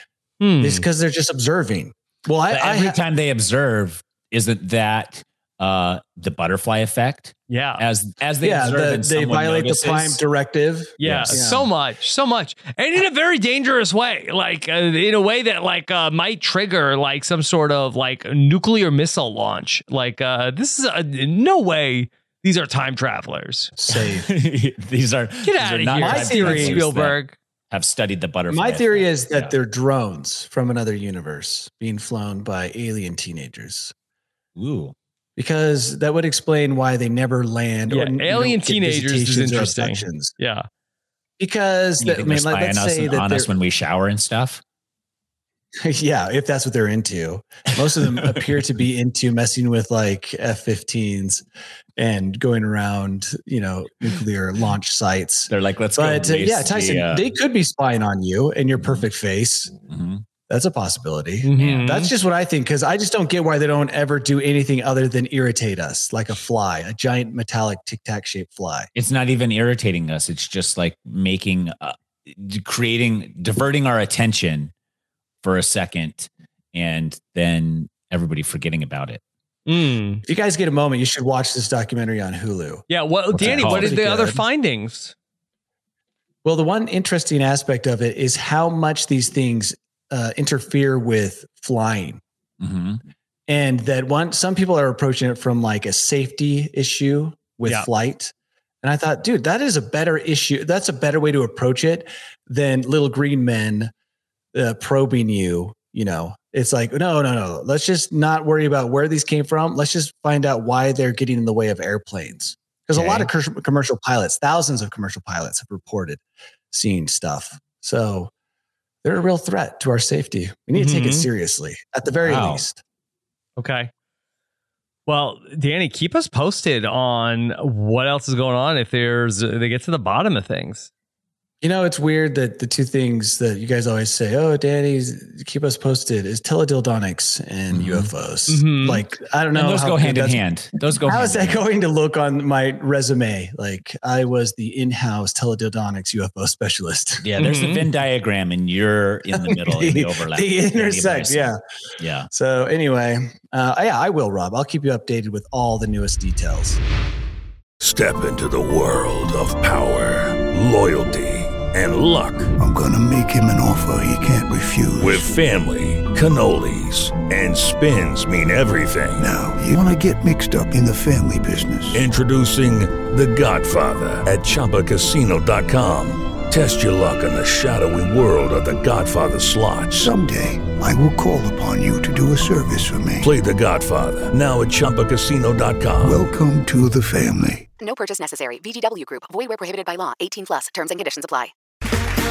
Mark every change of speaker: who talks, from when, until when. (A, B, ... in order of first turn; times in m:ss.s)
0:00.4-0:00.8 A
0:00.6-0:03.0 B
0:02.5-0:10.2 C
0:07.5-0:07.8 A
0:08.4-0:11.7 B
0:11.0-0:23.7 A
0:11.0-0:11.4 C
0:23.8-0:24.3 B
0:23.9-0:27.2 C
0:25.4-0:27.3 A
0:26.0-0:26.8 B
0:27.7-0:29.5 C
0:28.5-0:33.9 B
0:34.6-0:34.9 C
0:35.4-0:40.3 B
0:37.9-0:40.6 A
0:41.4-0:43.5 B
0:42.0-0:44.6 C
0:45.8-0:51.4 B
0:52.0-0:59.7 B
0:55.5-0:57.3 C
0:58.8-0:59.0 C
0:59.9-1:00.2 C
1:00.5-1:08.9 B
1:01.4-1:02.1 A
1:08.9-1:14.7 C
1:15.4-1:19.2 C
1:19.7-1:20.2 A
1:20.2-1:24.4 B
1:22.9-1:25.1 A
1:23.3-1:24.0 C
1:26.4-1:32.2 B
1:32.6-1:33.0 C
1:33.5-1:43.9 B
1:44.5-1:58.3 B
1:52.9-1:53.3 C
1:59.0-2:02.8 B
2:00.7-2:01.3 A
2:02.2-2:02.6 C
2:03.6-2:03.9 A
2:05.1-2:10.9 A
2:11.6-2:20.4 B
2:17.7-2:18.1 C
2:18.5-2:19.0 A
2:19.5-2:21.6 C
2:21.0-2:27.2 B
2:27.2-2:32.3 C
2:27.4-2:27.8 A
2:29.3-2:31.6 B
2:32.3-2:36.8 B
2:37.8-2:42.5 D
2:42.6-2:45.3 E
2:45.0-2:49.2 D
2:49.2-2:52.0 E
2:51.9-3:00.1 D
2:59.9-3:03.3 E
3:03.2-3:06.2 D
3:06.0-3:07.7 E
3:07.8-3:11.5 F